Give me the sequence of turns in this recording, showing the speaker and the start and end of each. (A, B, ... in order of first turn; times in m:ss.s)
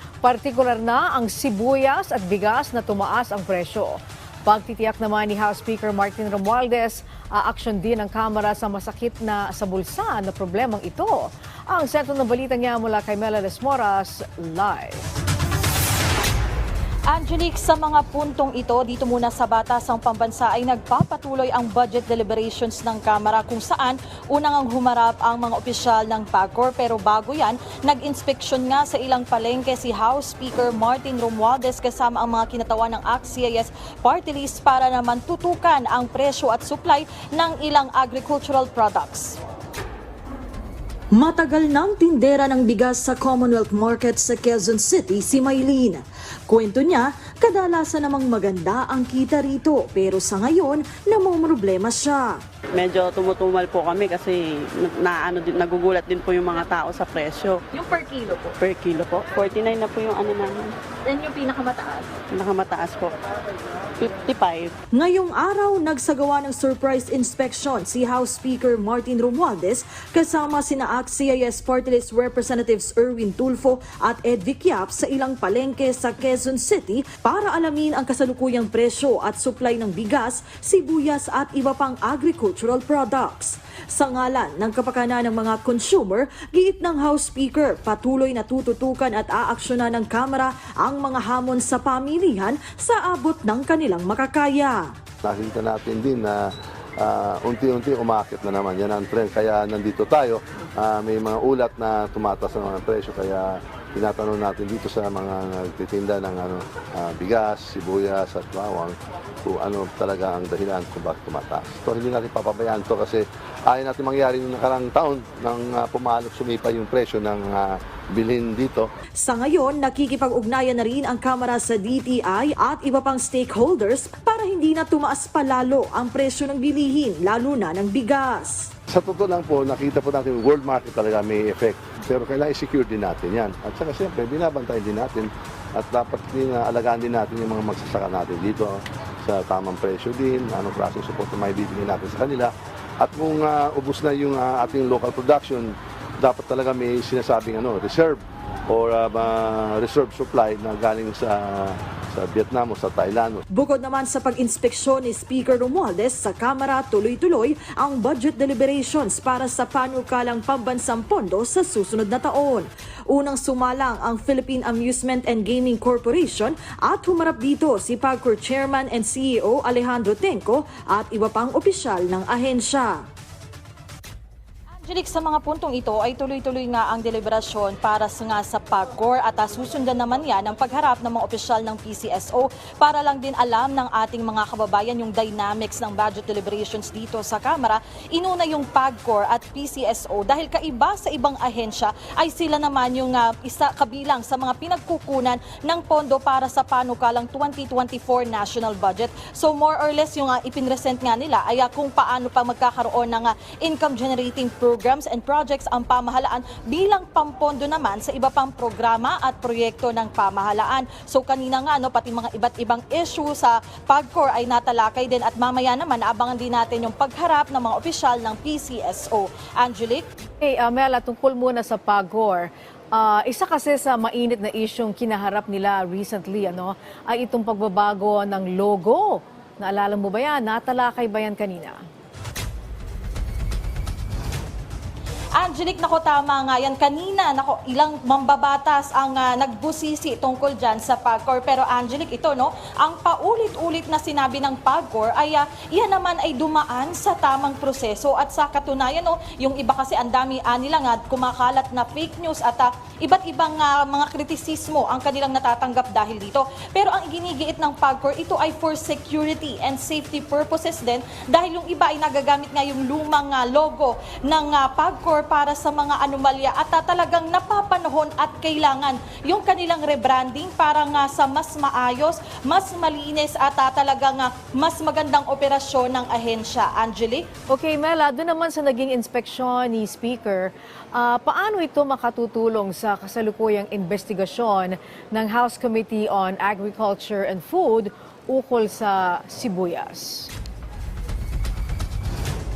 0:00.2-0:15.1 A
0:17.1-0:39.4 B
0:41.1-0:52.4 C
0:52.7-0:57.6 D
0:58.5-1:00.8 D
1:02.2-1:03.2 D
1:04.0-1:04.7 D
1:04.9-1:34.9 C
1:35.2-1:36.5 E
1:37.0-1:58.9 E
1:59.2-2:08.7 C
2:08.9-2:33.4 E
2:33.5-2:53.0 C
2:54.8-3:40.0 B
3:40.4-3:51.8 A
3:55.4-4:37.2 B
4:37.5-4:50.3 A